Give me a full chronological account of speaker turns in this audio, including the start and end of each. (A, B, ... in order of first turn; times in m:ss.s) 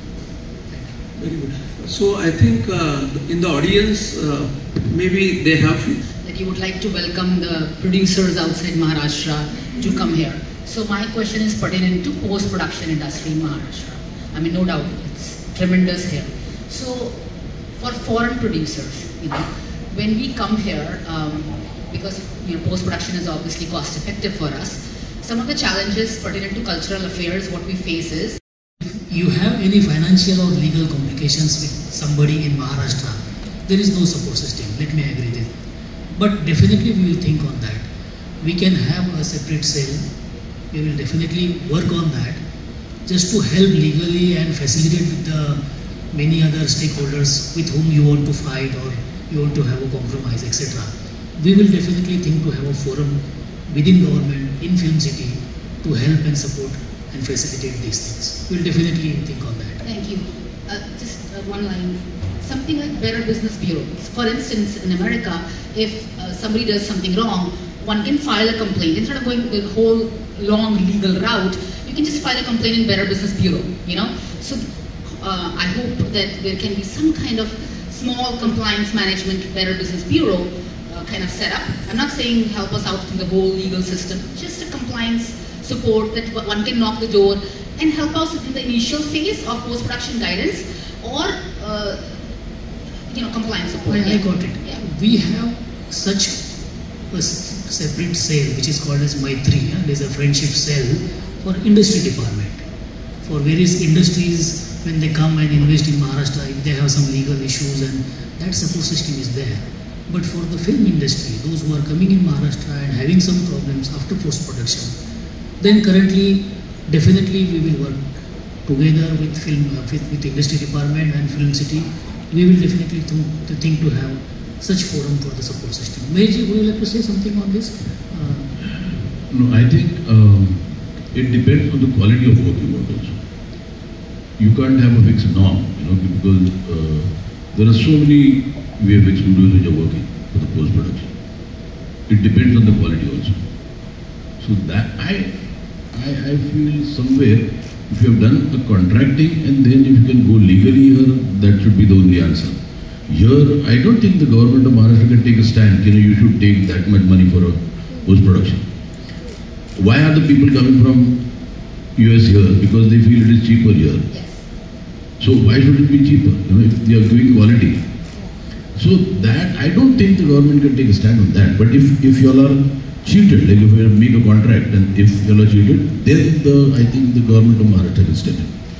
0:01.2-0:06.0 A
0:06.2-0:17.1 B
0:17.8-0:28.4 B
0:28.8-0:35.5 C
0:36.1-0:37.8 C
0:38.4-0:40.0 C
0:40.7-0:42.4 C
0:43.0-0:45.6 C
0:46.1-0:59.8 C
0:59.8-1:14.6 B
1:15.2-1:32.1 B
1:33.1-1:34.8 B
1:33.9-1:36.3 C
1:37.1-1:42.6 C
1:43.2-1:54.9 C
1:55.6-1:58.0 C
1:58.6-2:08.5 C
2:08.8-2:13.2 D
2:14.4-2:21.1 D
2:22.1-2:23.4 D
2:24.4-2:25.3 D
2:25.9-2:38.6 D
2:39.8-2:41.2 D
2:42.0-2:44.0 D
2:44.1-2:44.4 B
2:45.2-2:47.8 D
2:48.8-2:58.5 D